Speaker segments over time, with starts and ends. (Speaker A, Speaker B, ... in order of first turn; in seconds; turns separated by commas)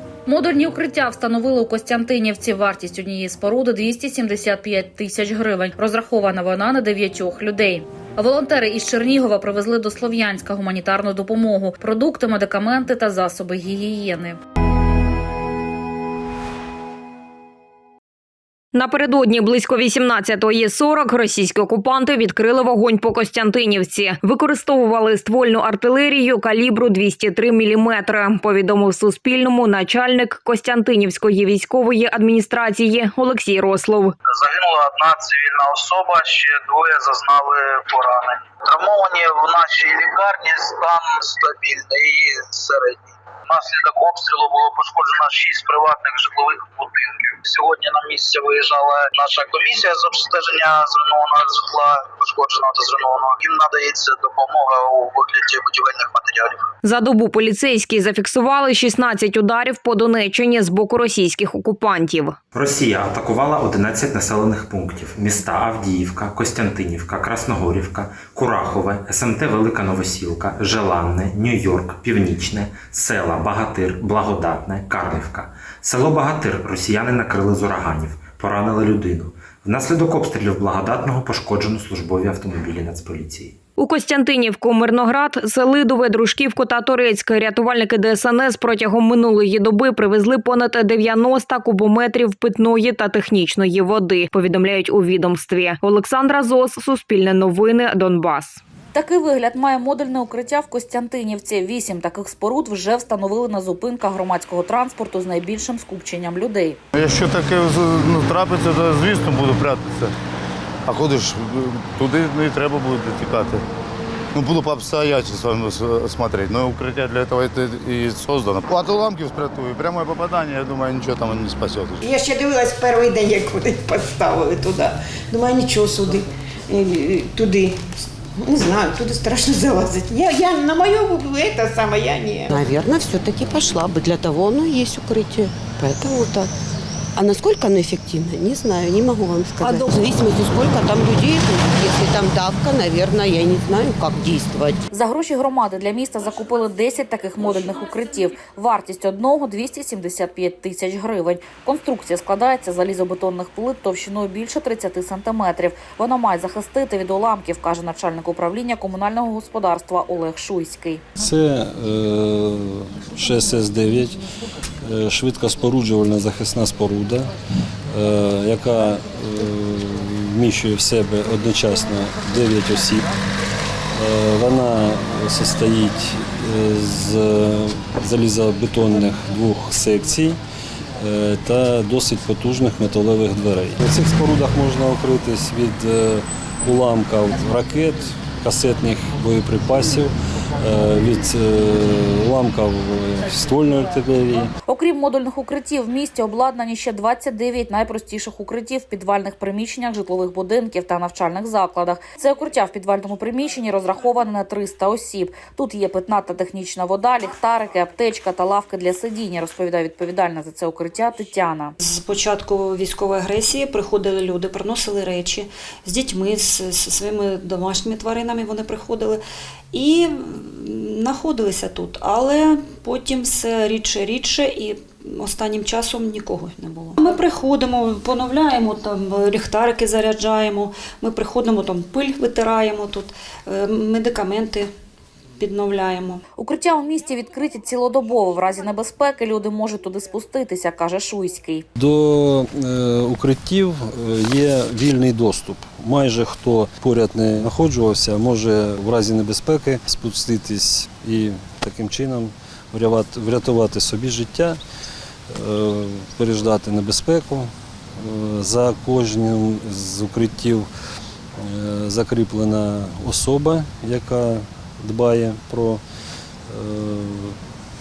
Speaker A: 0.3-14.4, Speaker B: 18.7-34.1, Speaker C: 34.3-56.6, Speaker B: 56.8-62.4, Speaker D: 62.5-83.6, Speaker B: 83.8-98.6, Speaker A: 98.9-106.8, Speaker E: 106.9-110.1, Speaker E: 110.9-113.6, Speaker E: 114.3-122.0, Speaker F: 122.0-127.8, Speaker F: 128.4-132.4, Speaker G: 132.4-136.5, Speaker G: 137.2-144.8, Speaker A: 144.9-161.0, Speaker H: 161.2-164.2, Speaker H: 164.9-167.3, Speaker H: 167.9-173.1, Speaker H: 173.9-180.4, Speaker H: 181.0-194.5, Speaker A: 194.7-211.7, Speaker I: 211.8-219.2, Speaker I: 219.7-234.7, Speaker I: 235.4-236.2, Speaker A: 236.4-241.7, Speaker H: 241.8-254.6, Speaker H: 255.3-260.7, Speaker H: 261.4-265.8, Speaker H: 266.5-267.4